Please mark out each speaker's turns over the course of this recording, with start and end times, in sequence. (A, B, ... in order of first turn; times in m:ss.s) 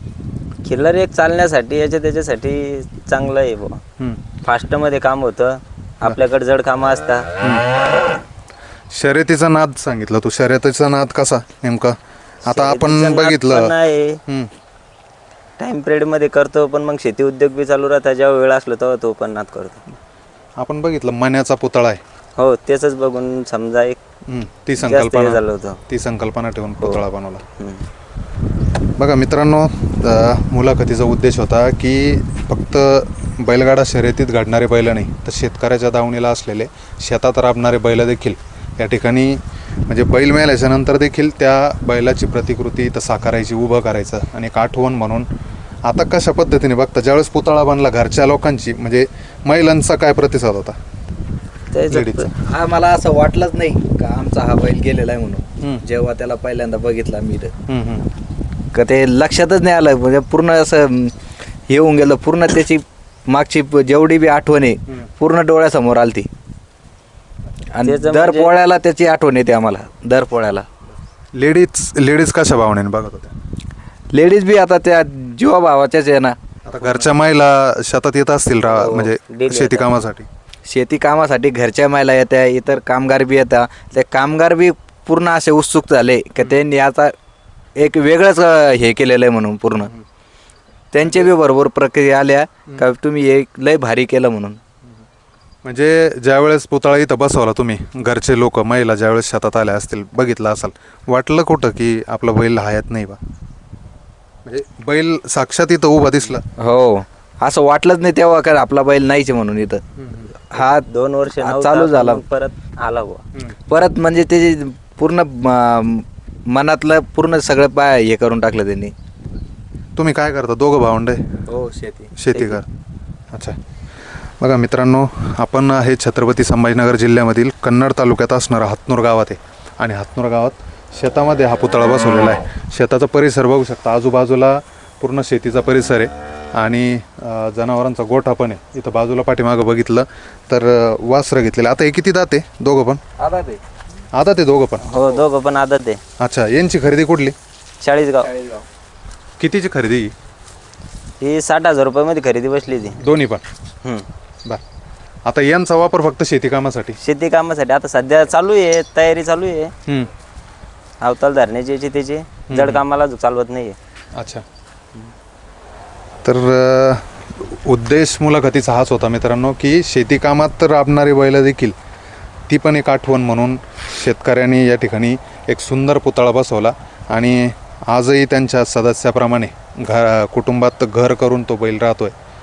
0:00.6-0:03.8 A
0:04.4-0:07.3 A
0:07.4-0:07.7 B
0:08.9-0:13.7 B
0:12.4-0:14.2 A
0:15.6-0:19.8 A
0:20.6-0:22.0 B
0:22.4-0:24.0 A
0:24.3-0:27.4 B
0:24.8-0:25.8 A
0:27.6-0:27.9 A
0:29.0-0:45.3 B
0:45.8-0:50.8 B
0:51.7-0:52.3 A
0:51.9-0:52.3 B
0:52.4-0:57.5 C
0:57.7-0:58.1 B
0:58.7-1:01.1 C
1:01.7-1:06.3 C
1:07.7-1:10.7 C
1:07.8-1:08.5 A
1:11.4-1:13.3 B
1:14.1-1:17.0 C
1:16.6-1:20.3 B
1:18.7-1:19.1 C
1:19.3-1:19.9 A
1:20.7-1:27.1 C
1:27.8-1:29.9 C
1:29.8-1:30.0 B
1:30.9-1:34.6 C
1:31.0-1:31.3 B
1:35.6-1:43.2 B
1:44.4-1:46.4 B
1:46.6-1:49.8 C
1:50.0-1:50.3 B
1:50.5-1:50.8 C
1:50.6-1:53.2 A
1:51.4-1:52.2 C
1:53.7-1:58.9 C
2:00.0-2:01.3 B
2:01.5-2:02.6 C
2:02.2-2:02.7 B
2:03.3-2:03.6 B
2:04.4-2:23.0 B
2:23.2-2:23.6 C
2:24.1-2:24.9 B
2:24.9-2:26.0 A
2:26.2-2:27.4 B
2:27.8-2:28.3 A
2:28.2-2:28.6 C
2:29.4-2:30.1 B
2:31.2-2:33.0 A
2:33.0-2:33.4 B
2:35.2-2:37.0 B
2:37.0-2:39.7 A
2:41.0-2:43.8 A
2:42.5-2:42.8 B
2:44.2-2:44.4 B
2:46.2-2:51.8 B
2:52.5-3:02.2 B